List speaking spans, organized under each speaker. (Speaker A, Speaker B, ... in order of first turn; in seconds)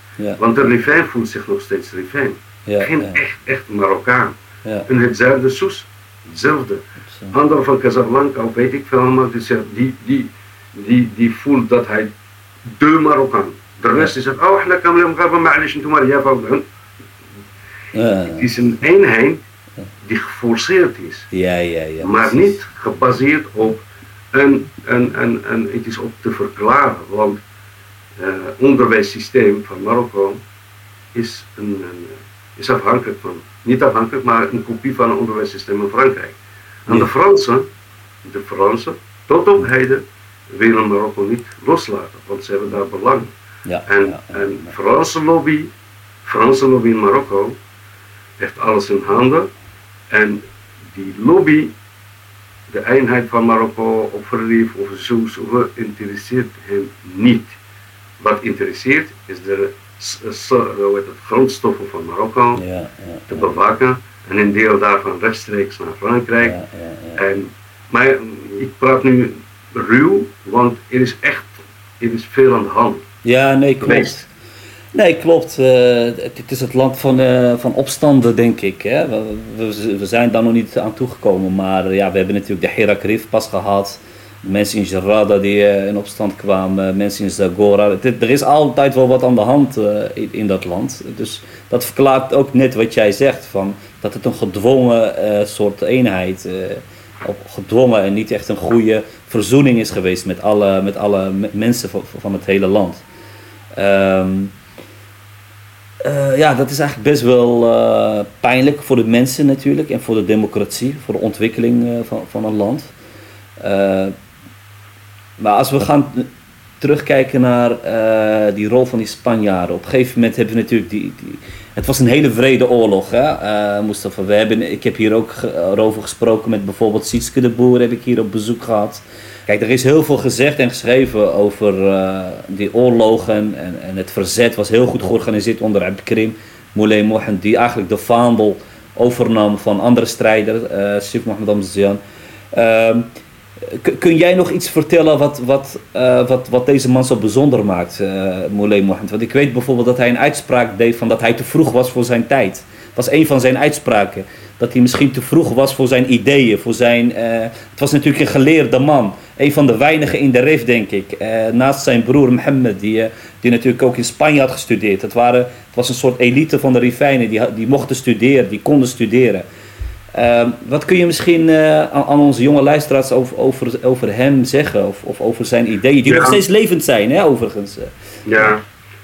Speaker A: 0.4-4.3, 4.9-12.1, 12.7-16.6, 18.3-19.4, 20.1-21.3, 22.0-27.4, 28.2-30.4, 31.1-37.7, 38.2-43.3, 43.9-45.7, 46.2-47.6, 48.4-49.5, 50.1-50.4, 50.9-51.7, 52.7-57.5, 58.2-62.6, 63.3-66.6, 67.2-73.0, 73.8-74.2, 176.1-176.4, 178.3-178.6
Speaker B: 2.7-3.2, 17.9-18.5, 21.3-22.6, 43.7-44.7, 62.5-63.5, 66.4-67.2, 73.2-74.3, 74.9-103.0, 103.8-104.5, 106.0-112.9, 113.6-114.2, 115.4-116.3, 116.8-142.0, 142.5-143.1, 143.6-169.4, 170.1-178.5